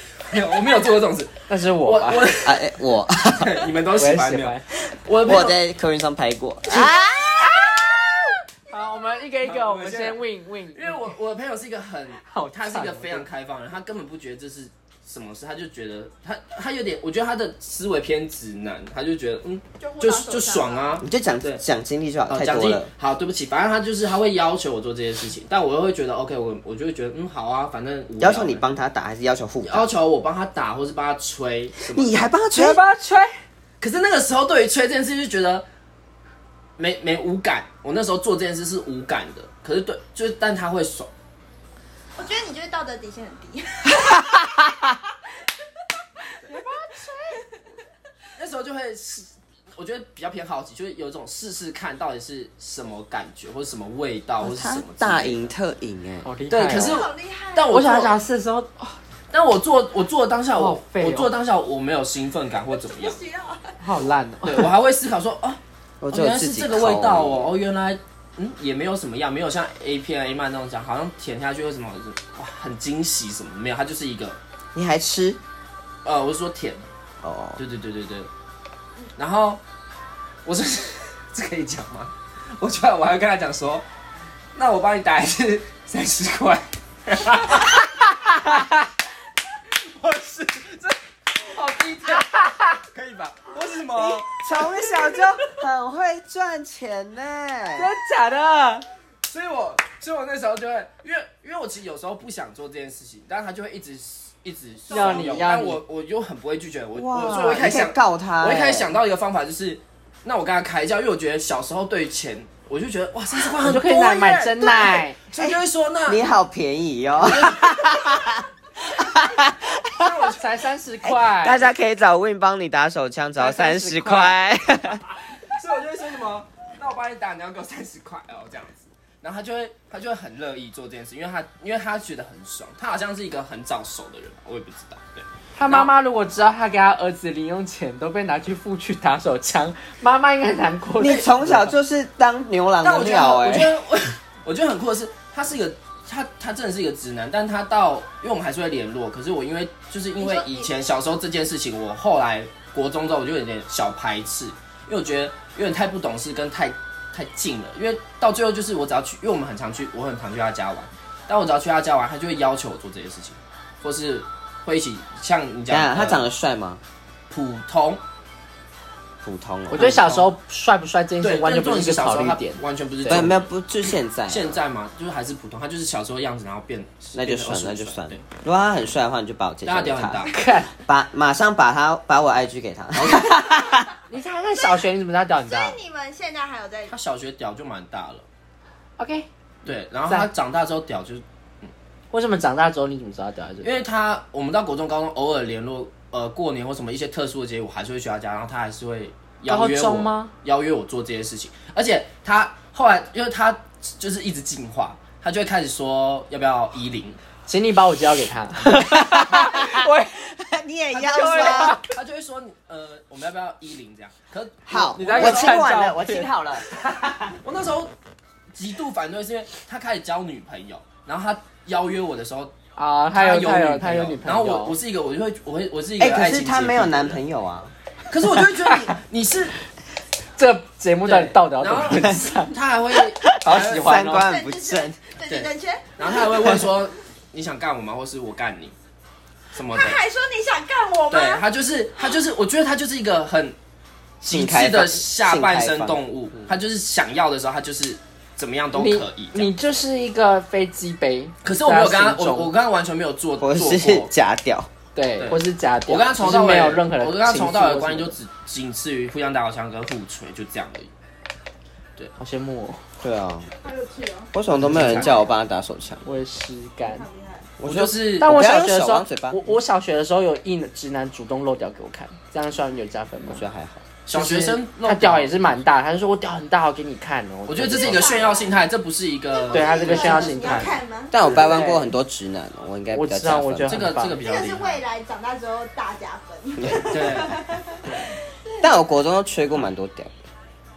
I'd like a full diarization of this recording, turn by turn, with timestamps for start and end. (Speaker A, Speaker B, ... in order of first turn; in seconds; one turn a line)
Speaker A: 0.2-2.7
Speaker B: 1.5-2.3
Speaker C: 2.4-3.6
Speaker A: 3.2-5.5
Speaker B: 4.0-4.7
Speaker C: 5.2-7.3
Speaker B: 6.7-11.1
Speaker A: 9.4-21.6
Speaker B: 12.2-13.2
Speaker D: 19.8-21.0
Speaker C: 21.0-22.9
Speaker A: 22.3-28.6
Speaker C: 28.2-29.9
Speaker A: 29.6-32.3
Speaker C: 31.9-32.8
Speaker B: 32.5-33.3
Speaker A: 33.8-35.6
Speaker A: 36.8-41.1
Speaker D: 42.2-44.5
Speaker B: 46.5-47.4
Speaker A: 48.4-55.5
Speaker C: 54.4-56.3
Speaker B: 56.2-57.0
Speaker A: 56.5-58.1
Speaker D: 56.7-57.8
Speaker B: 57.7-59.0
Speaker A: 59.3-63.2
Speaker B: 60.5-61.3
Speaker D: 62.8-63.8
Speaker B: 63.8-64.7
Speaker A: 64.4-65.6
Speaker C: 66.0-67.5
Speaker A: 66.1-74.4
Speaker C: 74.7-75.4
Speaker A: 76.0-76.8
Speaker C: 77.2-77.6
Speaker A: 77.6-78.3
Speaker A: 79.2-79.6
Speaker A: 80.4-83.8
Speaker A: 84.5-87.9
Speaker B: 88.0-88.8
Speaker A: 89.7-92.3
Speaker B: 92.0-92.8
Speaker A: 92.9-94.4
Speaker C: 93.9-97.9
Speaker B: 97.7-98.8
Speaker A: 99.2-116.3
Speaker D: 104.9-105.5
Speaker B: 104.9-105.8
Speaker C: 106.9-108.9
Speaker B: 113.6-115.2
Speaker C: 115.4-120.2
Speaker A: 117.2-117.9
Speaker A: 120.0-120.4
Speaker B: 120.2-121.7
Speaker C: 121.0-125.0
Speaker B: 123.4-124.4
Speaker A: 125.3-135.9
Speaker B: 135.6-141.7
Speaker C: 141.0-143.8
Speaker A: 142.8-166.2
Speaker D: 150.2-150.7
Speaker C: 165.7-166.8
Speaker A: 167.3-168.0
Speaker C: 169.2-170.0
Speaker B: 169.7-173.3
Speaker A: 169.7-170.3
Speaker A: 171.2-173.5
Speaker C: 173.1-174.6
Speaker A: 174.3-178.2
Speaker C: 177.1-180.3
Speaker A: 179.6-180.4
Speaker B: 180.3-180.7
Speaker C: 180.8-183.9
Speaker A: 183.0-183.3
Speaker B: 184.1-185.8
Speaker D: 184.6-184.8
Speaker D: 185.4-186.9
Speaker A: 186.9-188.2
Speaker B: 189.0-189.3
Speaker A: 189.6-191.7
Speaker B: 192.1-193.8
Speaker A: 193.6-207.2
Speaker B: 199.5-200.3
Speaker B: 207.5-210.1
Speaker C: 208.8-211.8
Speaker B: 210.9-211.9
Speaker A: 211.0-215.7
Speaker C: 214.7-217.3
Speaker B: 214.9-216.3
Speaker A: 217.4-217.9
Speaker A: 218.5-222.5
Speaker B: 222.8-224.7
Speaker A: 223.1-227.2
Speaker C: 226.0-227.7
Speaker A: 228.1-229.6
Speaker B: 230.3-232.5
Speaker A: 231.1-234.2
Speaker B: 233.2-234.2
Speaker C: 233.4-235.0
Speaker D: 234.0-236.6
Speaker A: 235.3-238.7
Speaker A: 239.5-240.0
Speaker D: 239.7-241.4
Speaker A: 241.1-243.6
Speaker C: 244.2-246.0
Speaker A: 244.2-249.5
Speaker B: 248.7-252.5
Speaker A: 251.4-254.1
Speaker C: 253.4-254.7
Speaker B: 254.9-258.2
Speaker A: 255.2-260.9
Speaker B: 262.2-262.8
Speaker C: 263.0-263.5
Speaker D: 263.6-264.3
Speaker C: 264.3-266.0
Speaker A: 264.5-265.2
Speaker D: 264.9-265.2
Speaker B: 266.0-267.1
Speaker D: 266.8-267.5
Speaker C: 267.6-269.4
Speaker A: 267.6-268.3
Speaker B: 268.2-273.4
Speaker C: 273.3-273.8
Speaker A: 274.1-275.5
Speaker B: 274.1-278.2
Speaker A: 277.5-280.8
Speaker D: 277.7-278.6
Speaker D: 279.3-281.1
Speaker B: 279.5-281.9
Speaker C: 281.1-283.9
Speaker B: 282.9-284.2
Speaker A: 283.7-284.8
Speaker D: 284.2-288.8
Speaker C: 286.6-287.1
Speaker A: 286.9-288.1
Speaker C: 288.6-290.2